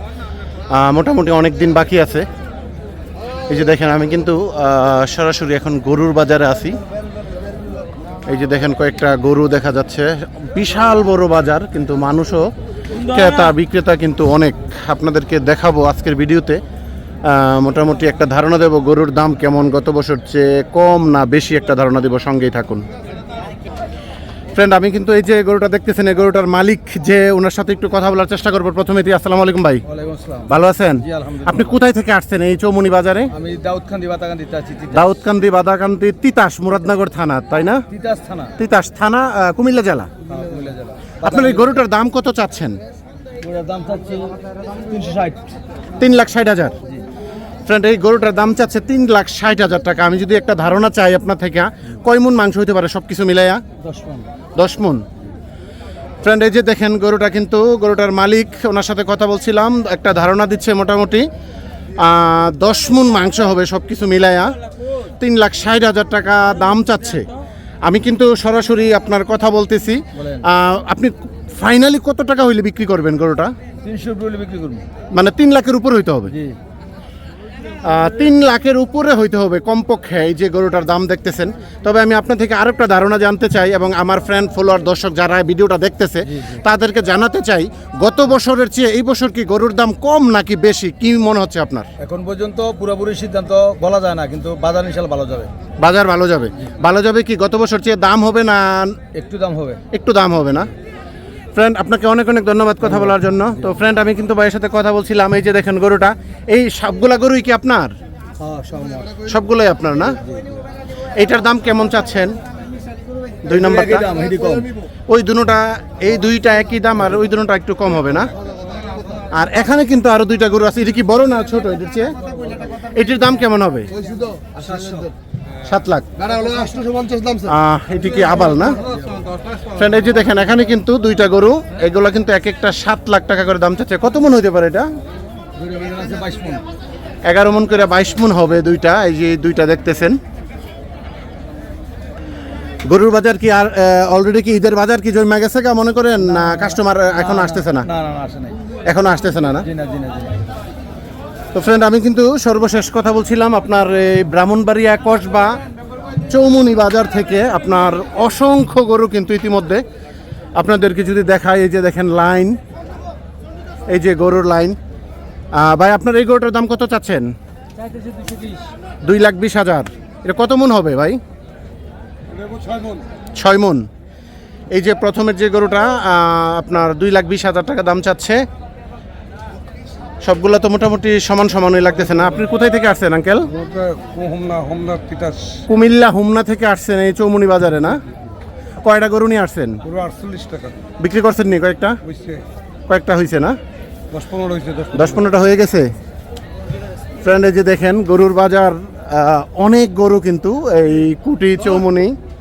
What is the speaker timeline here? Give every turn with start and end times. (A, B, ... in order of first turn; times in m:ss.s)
0:00.7-0:02.3 A
0:03.5-0:06.8 A
0:08.3-0:12.4 A
0:13.0-0:16.6 A
0:17.2-0:22.8 A
0:24.6-0:29.8 A
0:29.9-0:31.8 B
0:30.5-0:33.3 A
0:33.3-0:35.1 B
0:34.9-0:37.8 A
0:37.9-0:38.5 B
0:38.6-0:40.1 A
0:40.3-0:41.8 B
0:41.2-0:42.8 A
0:43.4-0:45.5 B
0:46.0-0:46.8 A
0:47.7-0:53.6 A
0:53.8-0:54.3 B
0:54.6-0:55.0 A
0:56.2-1:01.3 A
1:02.0-1:04.5 A
1:05.2-1:07.2 A
1:07.8-1:13.5 A
1:10.2-1:10.4 B
1:13.8-1:14.8 B
1:15.1-1:16.3 A
1:16.3-1:16.6 B
1:17.8-1:31.9 A
1:32.0-1:35.5 B
1:35.8-1:39.0 A
1:39.1-1:39.8 B
1:39.9-1:40.7 A
1:41.6-1:47.9 A
1:42.9-1:43.6 B
1:48.4-1:49.2 B
1:49.3-1:50.2 A
1:51.2-1:52.4 A
1:53.4-1:54.1 A
1:53.5-1:54.7 B
1:55.1-1:58.3 A
1:59.3-2:02.1 A
2:02.9-2:03.9 A
2:04.6-2:05.1 B
2:05.6-2:06.1 A
2:07.4-2:08.8 A
2:09.7-2:14.9 A
2:15.6-2:16.6 B
2:17.3-2:20.2 A
2:22.9-2:27.9 A
2:27.2-2:28.6 B
2:28.9-2:29.7 A
2:29.6-2:30.4 B
2:31.5-2:35.5 A
2:36.3-2:39.8 A
2:40.6-2:42.6 A
2:43.9-2:44.8 A
2:45.5-2:47.3 A
2:49.0-2:51.2 A
2:53.4-2:53.9 A
2:54.7-2:58.4 A
3:00.2-3:03.5 A
3:03.9-3:05.5 B
3:05.7-3:08.0 A
3:08.8-3:09.8 A
3:09.9-3:10.8 B
3:11.0-3:12.0 A
3:12.1-3:12.4 B
3:12.9-3:13.6 A
3:14.1-3:14.9 B
3:14.9-3:15.9 A
3:17.2-3:22.2 A